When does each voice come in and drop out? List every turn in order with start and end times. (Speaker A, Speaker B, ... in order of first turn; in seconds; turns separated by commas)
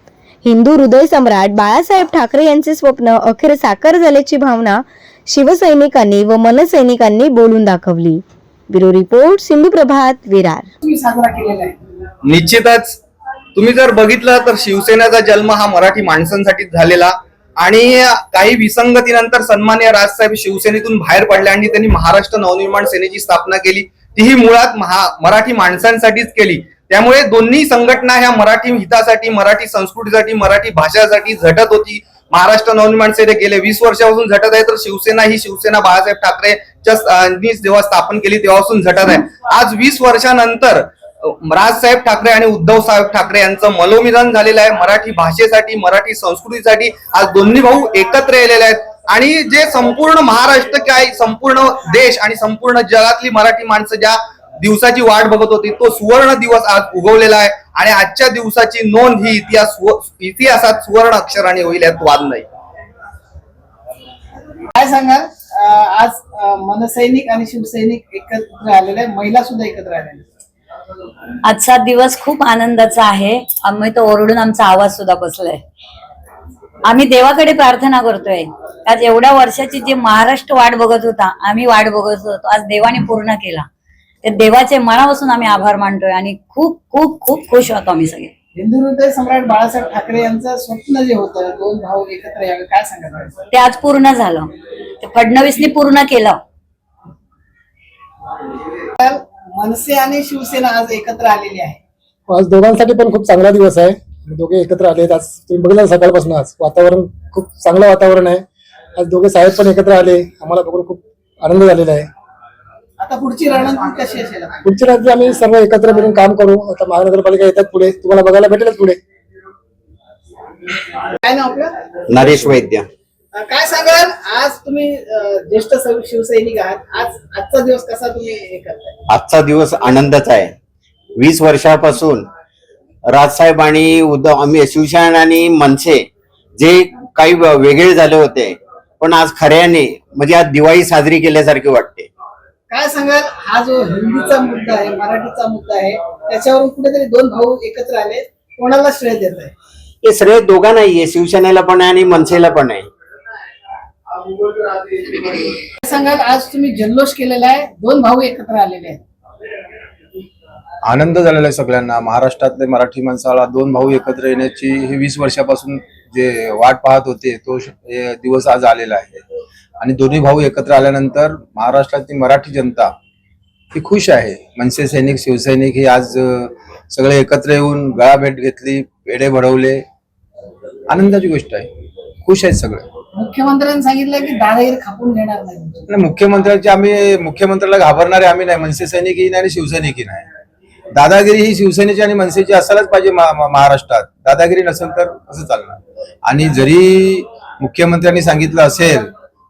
Speaker A: 0.4-10.7, Speaker B: 10.8-11.8, Speaker C: 12.2-13.0, Speaker C: 13.6-62.5, Speaker B: 64.7-70.2, Speaker D: 71.4-75.6, Speaker D: 76.9-83.7, Speaker D: 84.2-88.3, Speaker B: 88.6-93.3, Speaker D: 93.5-94.5, Speaker D: 95.0-96.4, Speaker B: 99.0-101.8, Speaker E: 102.3-108.4, Speaker E: 109.0-112.1, Speaker B: 113.0-114.5, Speaker E: 114.7-119.0, Speaker B: 121.2-121.7, Speaker F: 122.1-122.9, Speaker B: 123.3-128.9, Speaker F: 129.1-130.6, Speaker F: 131.2-132.3, Speaker F: 133.1-136.1, Speaker F: 136.6-142.1, Speaker B: 142.7-149.5, Speaker F: 150.0-152.9, Speaker B: 155.0-159.0, Speaker G: 160.9-169.2, Speaker G: 169.8-172.9, Speaker G: 173.7-179.8, Speaker G: 180.9-181.7, Speaker G: 182.2-182.8, Speaker B: 183.1-185.8, Speaker G: 185.9-190.3, Speaker G: 190.9-199.1